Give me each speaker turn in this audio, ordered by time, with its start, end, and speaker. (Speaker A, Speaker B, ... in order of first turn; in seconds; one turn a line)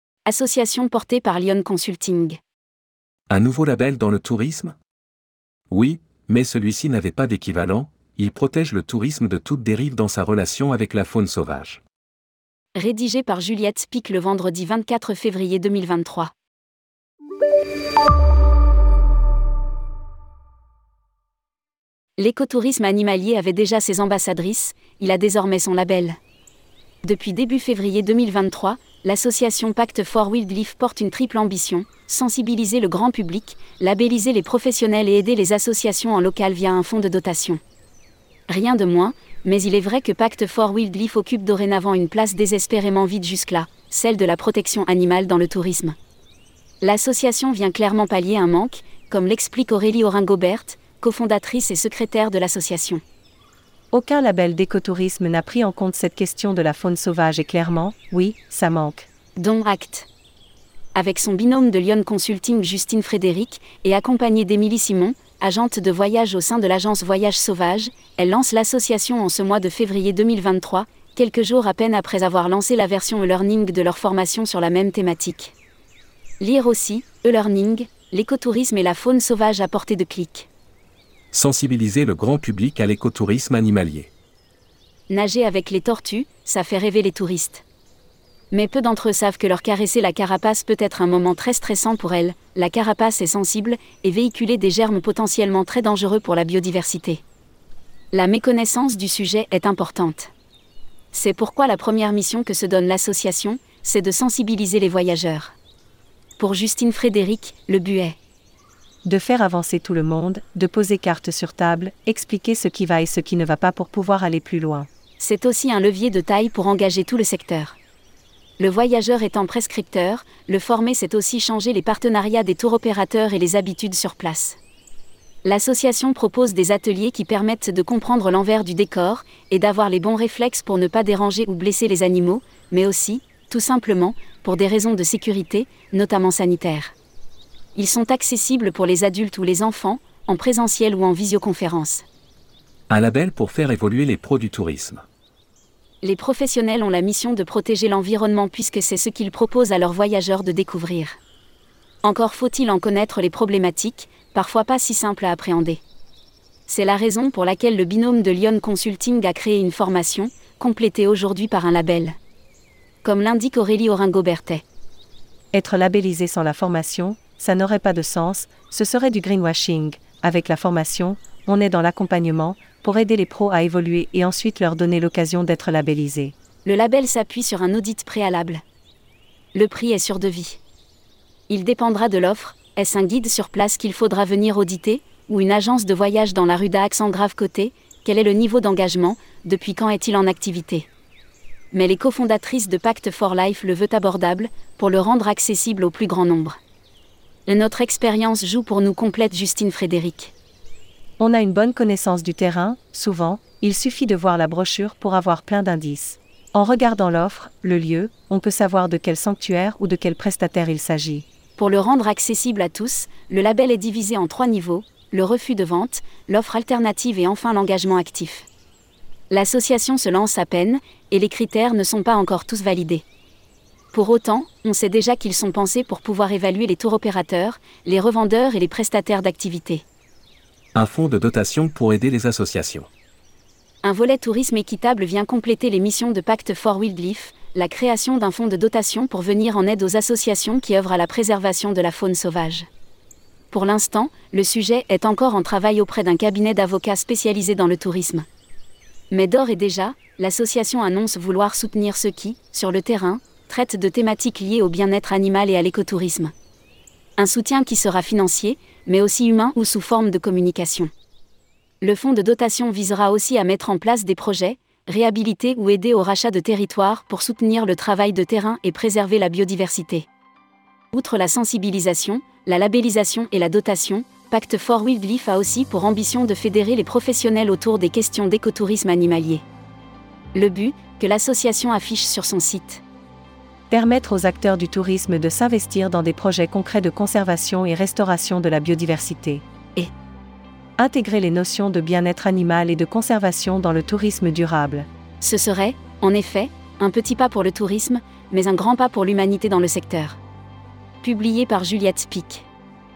Speaker A: 0.3-2.4
Speaker B: 3.3-4.8
Speaker B: 5.7-11.8
Speaker A: 12.8-16.3
Speaker A: 22.2-26.2
Speaker A: 27.0-37.6
Speaker A: 38.5-46.0
Speaker A: 46.8-53.0
Speaker C: 53.9-59.1
Speaker A: 59.4-60.1
Speaker A: 60.9-75.5
Speaker A: 76.4-80.5
Speaker B: 81.3-84.1
Speaker A: 85.1-87.6
Speaker A: 88.5-97.2
Speaker A: 98.1-100.3
Speaker A: 101.1-105.6
Speaker A: 106.4-108.2
Speaker C: 109.0-114.9
Speaker A: 115.2-117.8
Speaker A: 118.6-124.6
Speaker A: 125.4-136.9
Speaker A: 137.8-142.1
Speaker B: 142.9-145.0
Speaker A: 146.0-151.2
Speaker A: 152.0-155.8
Speaker A: 156.7-162.2
Speaker A: 163.0-164.6
Speaker C: 165.5-176.3
Speaker A: 176.6-178.6
Speaker A: 179.5-180.6
Speaker A: 181.5-190.9
Speaker A: 191.7-196.6
Speaker A: 197.5-200.3
Speaker C: 201.2-211.2
Speaker A: 211.6-218.5
Speaker A: 219.3-223.0
Speaker A: 223.9-229.8
Speaker B: 230.8-232.9
Speaker A: 233.8-242.7
Speaker A: 243.5-248.2
Speaker A: 249.1-256.3
Speaker A: 257.2-260.9
Speaker A: 261.8-270.1
Speaker A: 270.9-279.4
Speaker A: 280.4-282.8
Speaker C: 283.7-289.4
Speaker C: 290.8-294.9
Speaker A: 295.2-300.2
Speaker A: 301.0-302.4